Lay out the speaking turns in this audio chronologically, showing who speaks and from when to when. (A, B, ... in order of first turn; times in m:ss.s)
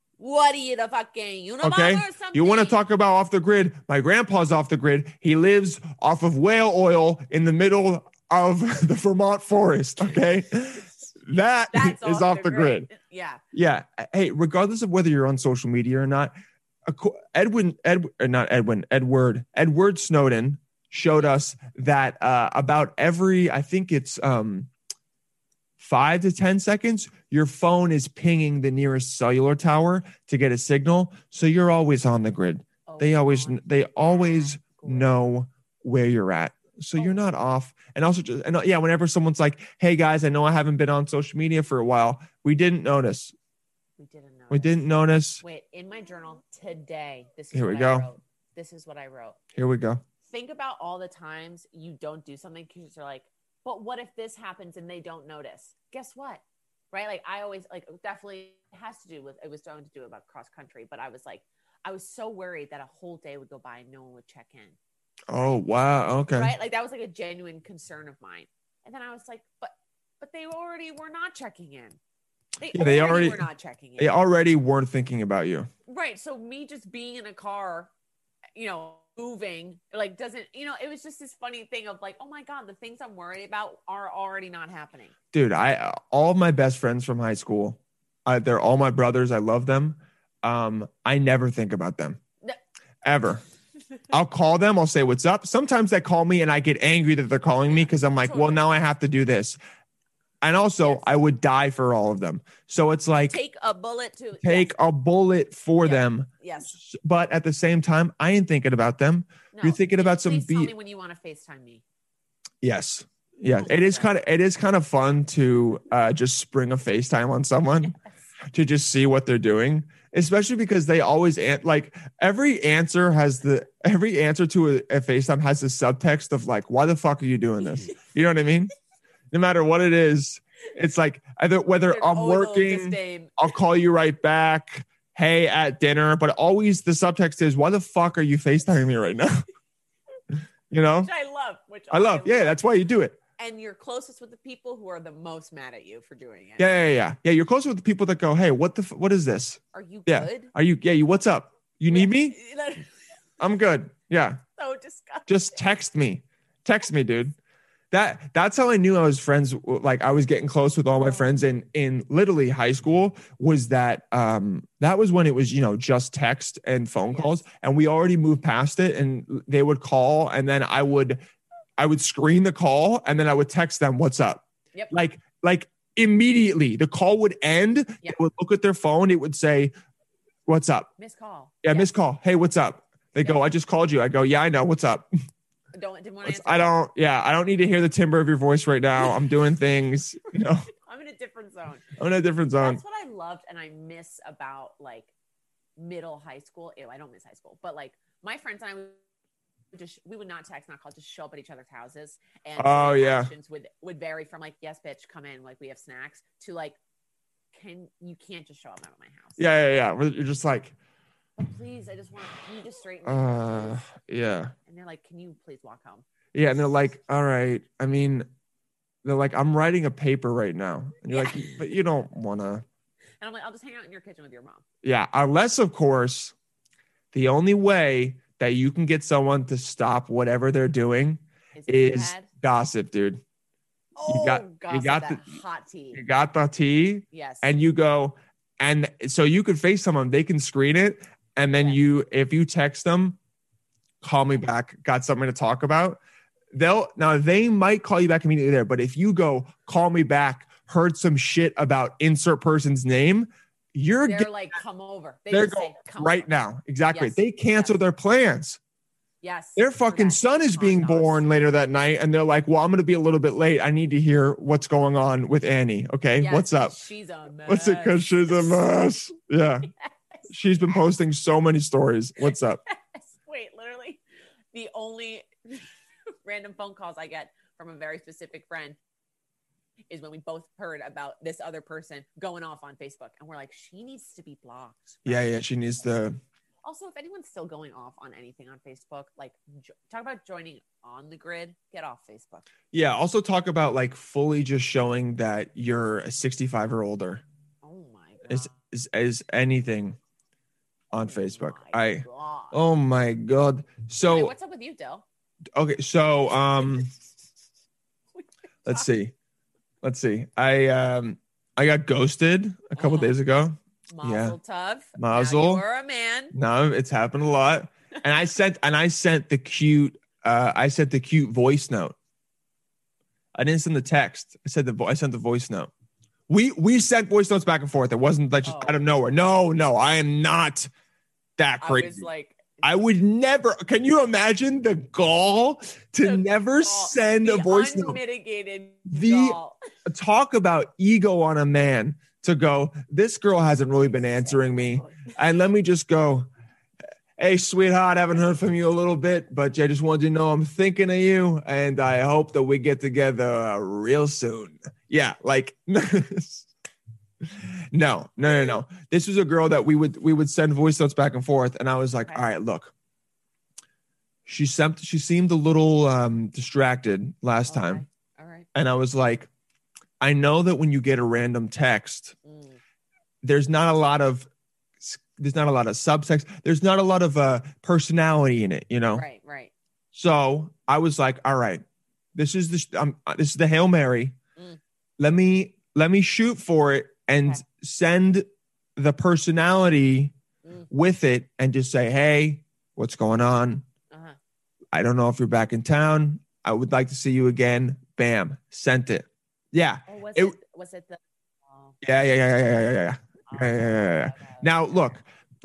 0:00.2-0:02.8 A
0:01.6-0:12.9 B
0:11.7-0:13.4 A
0:13.5-0:16.3 B
0:16.9-0:24.7 B
0:25.8-0:43.4 B
0:32.9-0:35.1 A
0:37.0-0:37.3 A
0:44.0-0:49.4 A
0:44.5-0:45.4 B
0:47.5-0:48.1 B
0:49.6-0:50.0 B
0:50.3-1:04.8 A
1:05.3-1:06.5 B
1:06.3-1:12.0 A
1:12.6-1:14.2 A
1:12.7-1:13.4 B
1:14.0-1:15.7 B
1:15.9-1:17.9 A
1:18.6-1:25.1 A
1:25.3-1:32.2 B
1:33.0-1:33.4 B
1:34.1-1:39.6 B
1:37.7-1:38.6 A
1:40.4-1:43.4 B
1:43.3-1:44.7 A
1:44.4-1:50.7 B
1:45.8-1:46.8 A
1:49.5-1:51.8 A
1:52.6-1:58.0 B
1:53.6-1:54.1 A
1:58.5-2:08.7 B
2:09.3-2:19.4 B
2:11.9-2:13.4 A
2:20.7-2:21.1 B
2:21.0-2:22.6 A
2:21.9-2:23.2 B
2:23.4-2:26.7 A
2:26.6-2:32.4 B
2:29.7-2:30.5 A
2:31.9-2:33.0 A
2:33.4-2:34.4 B
2:34.6-2:35.6 A
2:35.3-2:37.4 B
2:37.9-2:51.2 B
2:47.1-2:47.4 A
2:51.8-2:59.7 B
3:00.5-3:00.9 B
3:01.0-3:01.9 A
3:01.6-3:05.1 B
3:03.2-3:03.5 A
3:05.7-3:06.7 A
3:06.2-3:10.7 B
3:10.8-3:11.9 A
3:12.0-3:12.8 B
3:12.6-3:15.1 A
3:15.8-3:19.0 A
3:19.7-3:26.8 A
3:22.6-3:23.3 B
3:27.5-3:29.4 A
3:29.4-3:30.8 B
3:31.4-3:33.8 A
3:33.1-3:34.5 B
3:34.7-3:36.0 A
3:36.3-3:38.3 B
3:39.0-3:42.6 B
3:41.1-3:41.6 A
3:43.2-3:44.6 A
3:44.8-3:46.3 B
3:47.1-3:53.2 B
3:51.6-3:52.3 A
3:54.0-3:56.0 A
3:54.1-3:55.4 B
3:55.9-4:03.2 B
3:57.1-3:57.5 A
4:04.0-4:06.0 B
4:06.5-4:14.3 B
4:14.0-4:16.3 A
4:15.3-4:18.6 B
4:16.9-4:17.8 A
4:19.2-4:21.2 A
4:19.6-4:26.8 B
4:26.2-4:28.7 A
4:27.5-4:29.7 B
4:30.3-4:32.6 B
4:32.2-4:34.0 A
4:34.5-4:35.7 A
4:36.2-4:38.8 A
4:39.9-4:45.3 A
4:45.0-4:46.2 B
4:46.6-4:52.5 A
4:52.7-4:57.2 B
4:57.6-4:58.5 A
4:58.3-5:00.0 B
5:00.9-5:04.3 B
5:01.0-5:02.6 A
5:04.0-5:05.0 A
5:05.6-5:06.9 B
5:08.2-5:08.9 A
5:08.7-5:09.1 B
5:09.8-5:14.4 B
5:12.8-5:13.2 A
5:13.9-5:16.4 A
5:15.0-5:15.6 B
5:16.3-5:22.0 B
5:23.4-5:25.7 B
5:26.3-5:30.7 B
5:28.4-5:28.8 A
5:31.4-5:32.1 B
5:31.6-5:32.6 A
5:32.6-5:38.0 B
5:36.0-5:39.6 A
5:38.9-5:46.3 B
5:43.9-5:45.2 A
5:47.2-5:56.5 B
5:57.2-6:02.7 B
6:04.3-6:07.8 B
6:07.5-6:08.5 A
6:08.6-6:09.3 B
6:10.0-6:12.2 B
6:12.2-6:12.6 A
6:13.2-6:14.3 B
6:14.8-6:19.0 B
6:18.9-6:19.5 A
6:19.9-6:21.6 B
6:22.2-6:24.2 B
6:25.0-6:28.3 B
6:28.8-6:30.1 B
6:30.4-6:30.7 A
6:30.7-6:33.6 B
6:33.9-6:34.2 A
6:34.7-6:40.4 B
6:39.9-6:41.8 A
6:41.8-6:45.0 B
6:43.3-6:44.9 A